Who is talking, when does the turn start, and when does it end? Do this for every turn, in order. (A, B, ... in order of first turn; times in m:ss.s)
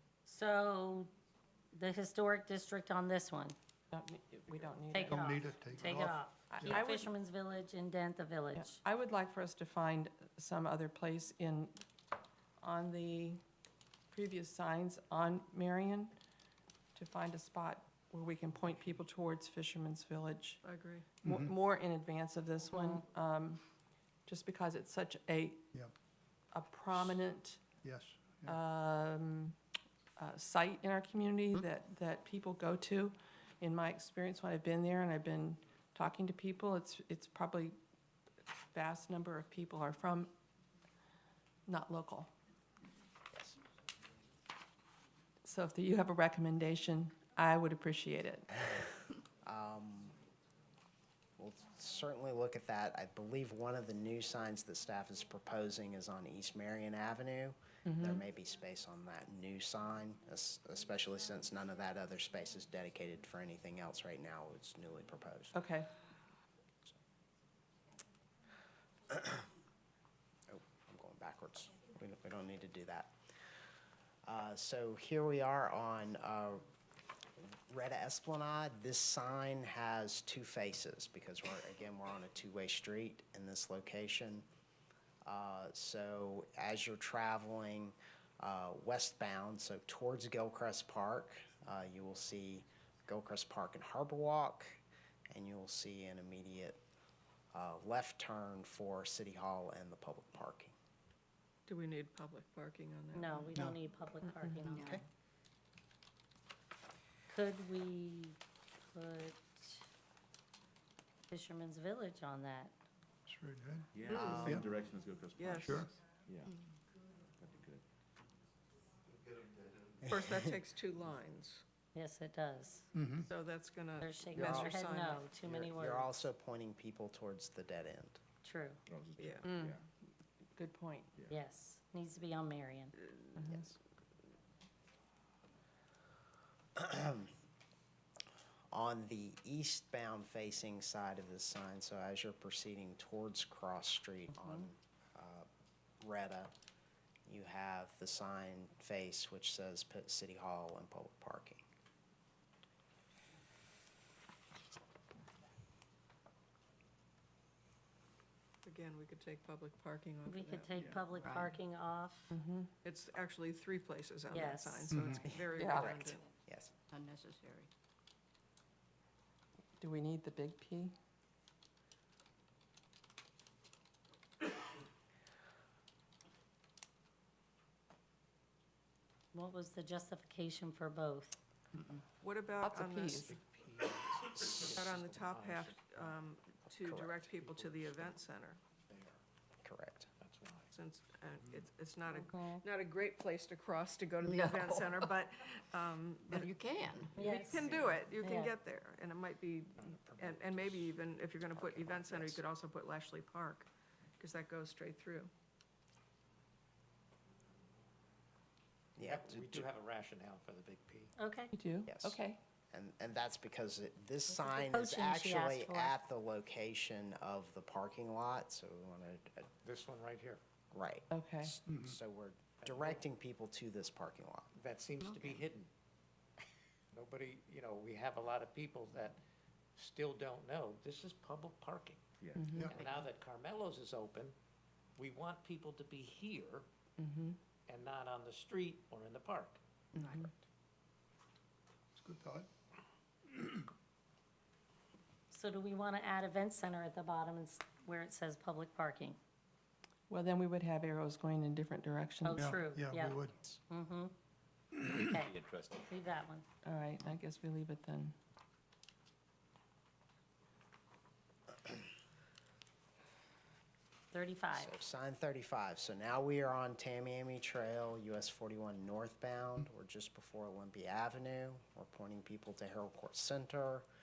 0:00.2-0:01.1 A
0:01.7-0:03.6 A
0:03.9-0:05.4 B
0:04.9-0:08.8 A
0:05.0-0:06.9 C
0:06.5-0:07.1 B
0:08.5-0:11.8 B
0:12.6-0:13.4 B
0:14.1-0:16.1 B
0:16.9-0:20.6 B
0:20.6-0:21.1 D
0:21.2-0:21.6 C
0:21.2-0:23.6 B
0:22.7-0:23.0 A
0:24.3-0:25.7 B
0:26.5-0:27.6 B
0:27.8-0:28.6 C
0:28.4-0:29.6 B
0:30.2-0:37.8 B
0:38.7-0:40.3 B
0:41.7-0:42.3 B
0:43.3-0:43.6 E
0:45.4-0:48.5 B
0:49.4-0:50.2 E
0:51.4-1:05.6 E
0:57.8-0:58.2 B
1:05.5-1:05.9 B
1:09.1-1:09.4 E
1:10.5-1:13.1 E
1:14.2-1:16.6 E
1:17.4-1:24.4 E
1:25.2-1:36.8 E
1:37.5-1:40.7 E
1:41.6-1:43.5 D
1:43.1-1:45.0 A
1:44.7-1:45.0 F
1:44.8-1:45.0 E
1:47.3-1:48.4 A
1:48.9-1:49.8 A
1:51.3-1:52.7 A
1:53.3-1:54.8 C
1:53.9-1:56.6 G
1:54.1-1:54.5 D
1:55.4-1:55.9 D
1:55.6-1:55.9 C
1:57.4-1:57.8 G
2:00.0-2:01.6 D
2:01.9-2:02.9 A
2:02.9-2:03.3 C
2:03.2-2:05.3 D
2:04.0-2:06.2 A
2:04.3-2:04.7 E
2:05.4-2:08.2 E
2:08.4-2:08.8 A
2:08.9-2:09.8 G
2:09.2-2:09.5 D
2:09.4-2:09.8 B
2:10.6-2:11.1 B
2:11.3-2:12.9 A
2:13.4-2:13.6 B
2:13.5-2:13.7 E
2:16.8-2:17.3 E
2:18.7-2:25.5 E
2:26.0-2:26.5 E
2:27.2-2:31.6 E
2:38.6-2:40.7 D
2:40.2-2:42.3 A
2:40.7-2:41.1 G
2:41.2-2:41.5 F
2:42.3-2:42.7 B
2:42.8-2:46.2 D
2:44.3-2:44.9 A
2:44.9-2:45.3 C
2:45.2-2:46.7 E
2:45.5-2:46.0 B
2:46.9-2:47.7 F
2:49.8-2:50.9 B
2:59.3-3:01.4 A
3:02.2-3:03.4 D
3:02.6-3:03.3 B
3:03.3-3:06.2 H
3:04.6-3:08.6 D
3:06.8-3:07.4 E
3:07.4-3:08.1 H
3:08.9-3:09.2 H
3:09.6-3:10.1 E
3:10.2-3:10.7 H
3:10.7-3:25.3 D
3:12.2-3:12.6 A
3:14.4-3:15.0 F
3:16.4-3:17.1 F
3:17.2-3:18.5 A
3:17.6-3:18.0 H
3:19.8-3:20.9 H
3:21.5-3:22.4 E
3:29.0-3:29.7 E
3:29.0-3:31.1 H
3:31.2-3:31.5 A
3:31.5-3:32.4 B
3:31.8-3:39.5 E
3:34.7-3:35.9 A
3:39.6-3:40.4 H
3:40.7-3:44.5 E
3:41.1-3:41.5 B
3:41.6-3:42.0 C
3:42.6-3:43.0 H
3:44.6-3:45.7 H
3:45.0-3:45.3 F
3:46.9-3:49.2 H
3:49.8-3:52.0 H
3:52.2-3:52.5 G
3:52.4-3:52.7 B
3:52.6-3:54.3 H
3:52.7-3:53.0 F
3:55.0-3:56.7 H
3:57.0-3:57.4 B
3:57.7-3:59.6 H
3:59.9-4:00.3 B
4:01.9-4:02.5 C
4:05.3-4:09.2 A
4:10.1-4:12.6 B
4:12.2-4:14.1 A
4:12.3-4:13.4 C
4:14.8-4:15.1 C
4:14.8-4:16.4 A
4:15.4-4:15.8 G
4:16.6-4:18.1 B
4:24.1-4:24.8 A
4:24.5-4:33.8 E